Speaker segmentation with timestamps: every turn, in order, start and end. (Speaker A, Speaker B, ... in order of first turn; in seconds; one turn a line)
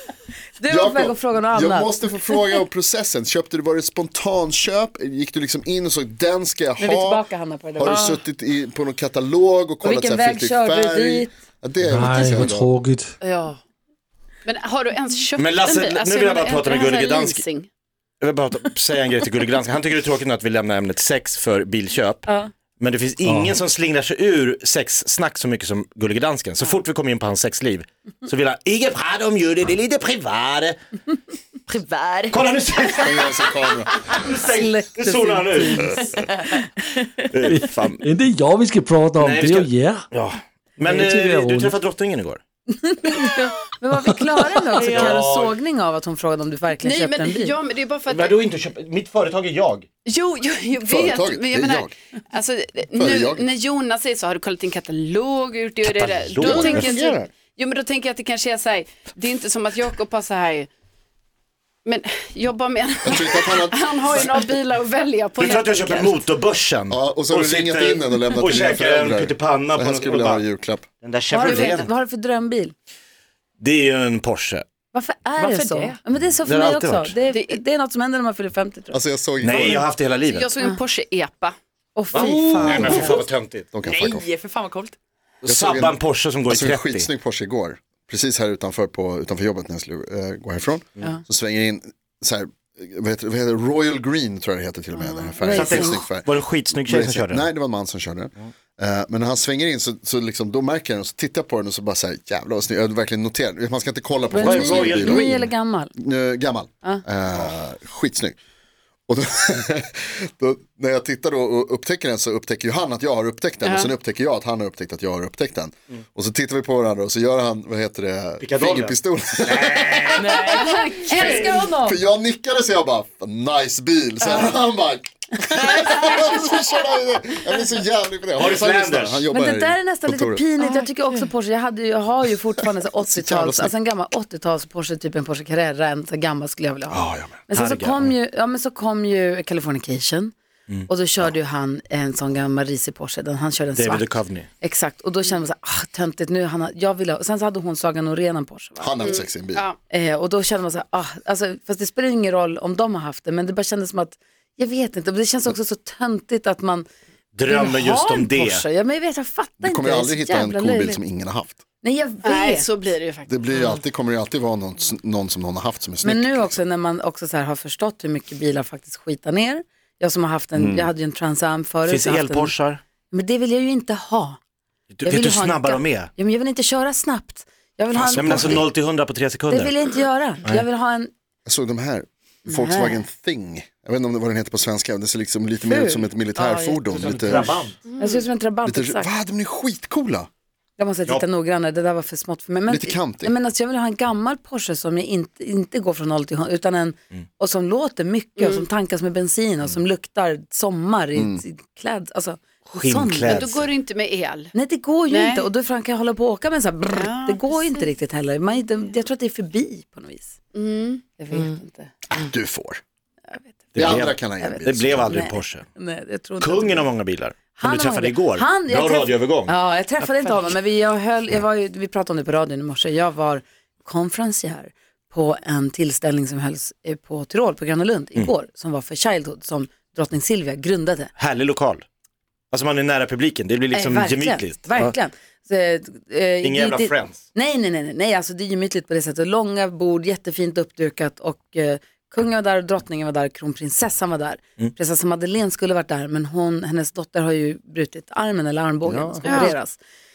Speaker A: 0.6-2.0
Speaker B: 0.7-12.7
Speaker A: 6.8-8.2
Speaker C: 7.8-8.2
Speaker A: 9.8-11.3
Speaker D: 11.9-13.1
Speaker C: 13.2-13.6
Speaker E: 14.4-17.7
Speaker F: 15.4-17.4
Speaker F: 18.2-22.3
Speaker F: 22.8-30.8
Speaker C: 31.7-32.4
Speaker F: 32.3-36.0
Speaker B: 33.0-33.9
Speaker A: 34.2-37.3
Speaker C: 36.2-36.4
Speaker F: 37.3-38.0
Speaker D: 37.4-40.0
Speaker F: 39.2-42.4
Speaker D: 40.8-41.7
Speaker A: 42.7-47.5
Speaker F: 44.8-45.5
Speaker C: 44.8-45.2
Speaker E: 46.8-48.4
Speaker F: 48.1-49.9
Speaker E: 50.0-60.7
Speaker B: 50.9-51.9
Speaker B: 52.9-53.5
Speaker F: 55.8-57.0
Speaker B: 56.4-57.3
Speaker E: 61.8-66.2
Speaker B: 63.0-64.3
Speaker F: 65.4-70.4
Speaker B: 66.9-70.8
Speaker F: 71.0-71.9
Speaker A: 71.3-72.7
Speaker E: 71.4-71.9
Speaker F: 73.6-74.6
Speaker A: 74.9-79.0
Speaker C: 75.4-76.0
Speaker F: 76.5-77.2
Speaker E: 77.3-77.6
Speaker B: 78.9-79.9
Speaker F: 79.4-80.5
Speaker E: 79.5-81.5
Speaker A: 81.9-83.2
Speaker F: 82.1-83.7
Speaker C: 82.4-82.9
Speaker B: 83.7-84.2
Speaker C: 83.9-84.9
Speaker F: 85.4-87.1
Speaker B: 85.4-108.3
Speaker A: 95.0-96.0
Speaker F: 95.5-97.5
Speaker A: 104.3-105.9
Speaker F: 104.4-105.4
Speaker B: 109.1-130.4
Speaker E: 113.6-113.9
Speaker F: 118.4-120.3
Speaker C: 120.2-121.8
Speaker A: 120.5-121.9
Speaker F: 121.2-121.5
Speaker C: 124.2-124.5
Speaker A: 125.7-126.2
Speaker C: 125.8-126.2
Speaker F: 128.3-129.3
Speaker A: 129.3-140.3
Speaker C: 130.6-131.3
Speaker B: 133.0-133.7
Speaker B: 136.9-137.3
Speaker F: 136.9-138.1
Speaker A: 140.9-149.0
Speaker F: 143.8-144.5
Speaker B: 148.8-149.6
Speaker E: 149.0-149.8
Speaker A: 149.9-156.8
Speaker F: 157.3-158.6
Speaker A: 157.5-161.0
Speaker B: 159.6-161.6
Speaker A: 161.8-162.7
Speaker E: 162.2-163.3
Speaker B: 163.3-166.6
Speaker A: 166.0-172.5
Speaker B: 170.5-170.9
Speaker F: 171.8-172.8
Speaker A: 173.1-174.4
Speaker F: 174.9-176.1
Speaker A: 175.0-178.7
Speaker B: 177.9-178.6
Speaker F: 178.1-179.8
Speaker A: 179.5-181.1
Speaker B: 181.4-187.6
Speaker A: 182.4-183.0
Speaker A: 185.6-187.3
Speaker F: 186.9-187.8
Speaker E: 187.9-188.2
Speaker A: 188.0-189.1
Speaker B: 188.6-190.3
Speaker A: 190.8-203.5
Speaker B: 192.7-193.3
Speaker E: 198.4-198.6
Speaker B: 201.2-201.4
Speaker F: 202.7-203.7
Speaker E: 203.3-204.5
Speaker A: 204.5-210.3
Speaker E: 205.1-205.4
Speaker E: 206.9-207.8
Speaker E: 210.5-211.0
Speaker A: 211.2-211.9
Speaker B: 212.1-212.8
Speaker F: 213.7-215.7
Speaker B: 213.8-215.2
Speaker A: 214.4-216.9
Speaker F: 216.4-219.5
Speaker A: 217.6-231.1
Speaker F: 231.2-231.8
Speaker F: 232.5-234.9
Speaker A: 233.7-249.8
Speaker F: 236.4-237.2
Speaker B: 248.8-249.5
Speaker E: 249.2-249.5